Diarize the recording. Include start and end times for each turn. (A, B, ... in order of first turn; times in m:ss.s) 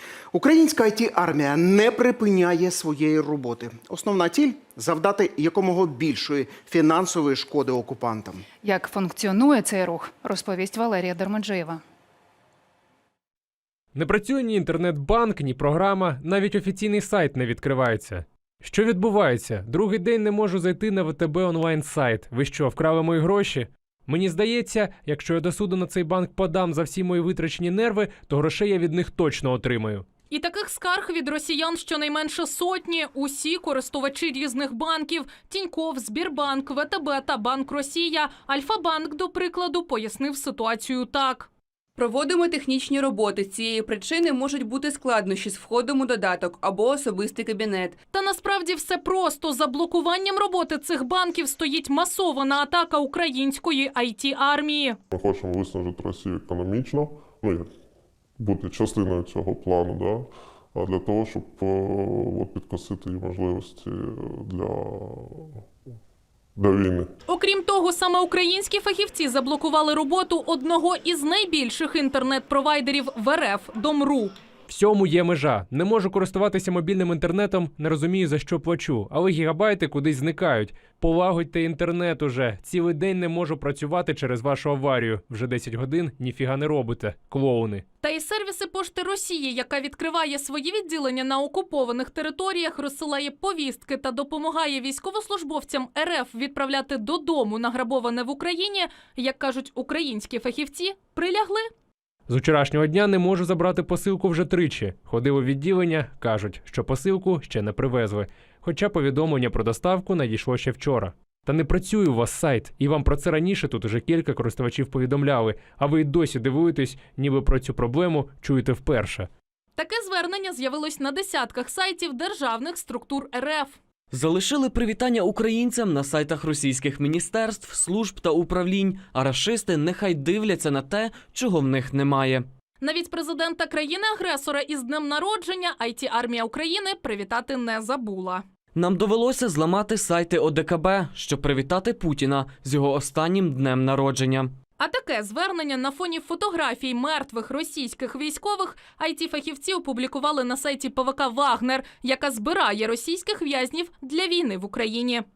0:00.3-0:08.5 A
0:08.6-0:11.8 B
0:13.9-0:30.0 C
0:30.3-0:41.5 D
0:42.0-0:48.0 E
0:48.1-0:55.0 D
0:55.1-0:57.7 F
0:58.4-1:05.6 F
1:06.6-1:07.1 F
1:07.3-1:14.3 D
1:14.7-1:27.8 C
1:28.0-1:41.7 D
1:42.3-1:59.3 C
1:59.8-2:03.8 D
2:04.1-2:12.5 G
2:12.8-2:18.4 D
2:18.7-2:24.5 G
2:24.8-2:35.2 D